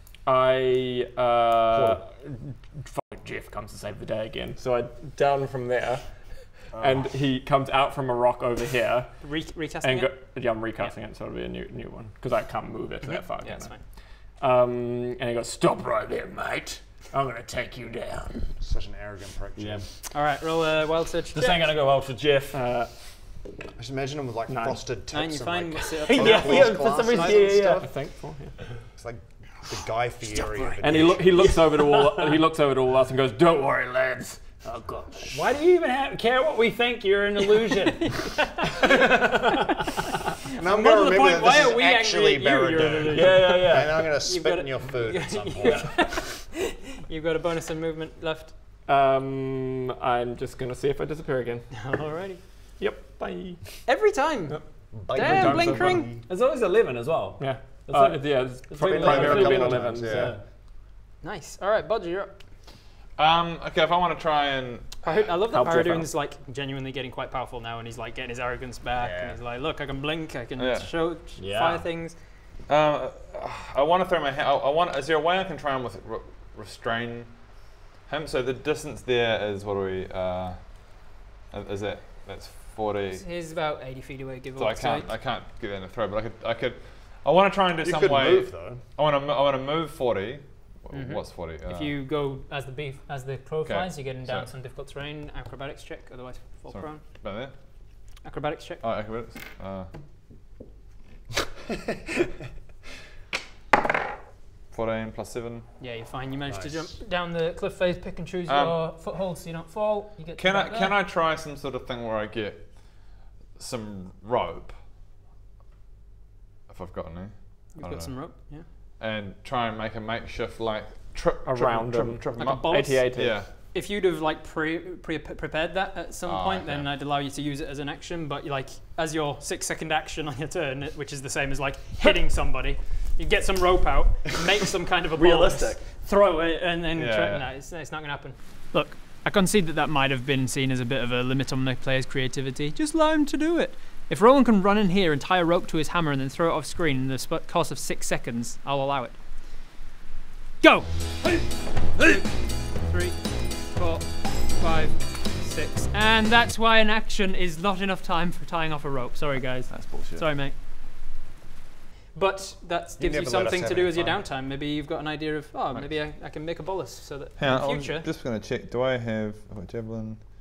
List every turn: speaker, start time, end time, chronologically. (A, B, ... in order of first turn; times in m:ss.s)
0:00.2-0:13.8 A
0:06.7-0:07.0 B
0:09.2-0:10.2 C
0:13.0-0:13.8 C
0:14.4-0:18.5 A
0:18.6-0:19.8 B
0:19.6-0:19.8 D
0:20.1-0:21.7 C
0:21.3-0:22.6 D
0:22.5-0:23.0 A
0:23.8-0:28.0 B
0:24.5-0:24.8 A
0:25.1-0:27.5 C
0:26.0-0:27.8 D
0:27.7-0:28.5 A
0:28.9-0:31.6 B
0:30.8-0:34.6 A
0:31.6-0:32.1 D
0:34.7-0:38.3 D
0:38.0-0:39.2 C
0:38.8-0:39.8 D
0:40.6-0:46.0 B
0:40.6-0:48.5 C
0:43.1-0:44.0 A
0:43.1-0:43.9 D
0:45.6-0:46.1 D
0:48.8-0:51.8 A
0:51.7-0:52.4 C
0:52.8-0:53.8 A
0:53.8-0:56.1 C
0:54.9-0:56.2 B
0:55.2-0:56.1 A
0:56.2-1:00.4 D
0:57.4-1:00.4 A
0:58.9-1:00.4 B
1:01.2-1:02.4 C
1:03.2-1:05.3 E
1:05.0-1:12.2 C
1:05.5-1:06.1 A
1:09.0-1:09.4 D
1:10.6-1:10.9 E
1:11.4-1:11.8 D
1:12.7-1:23.2 E
1:23.1-1:25.1 C
1:24.6-1:32.0 E
1:27.8-1:28.8 B
1:30.9-1:37.0 C
1:33.6-1:34.5 E
1:36.7-1:37.5 E
1:38.2-1:38.8 C
1:38.8-1:39.9 E
1:44.7-1:45.7 E
1:45.8-1:51.0 C
1:46.5-1:46.9 B
1:48.5-1:48.8 E
1:50.4-1:54.8 E
1:56.7-2:03.5 E
1:57.7-1:58.7 C
2:01.4-2:03.4 A
2:02.4-2:29.2 C
2:06.2-2:06.9 E
2:15.2-2:15.8 D
2:16.9-2:17.5 E
2:30.6-2:40.6 C
2:39.7-2:40.2 E
2:42.1-2:48.1 C
2:43.0-2:44.2 B
2:47.4-2:50.2 E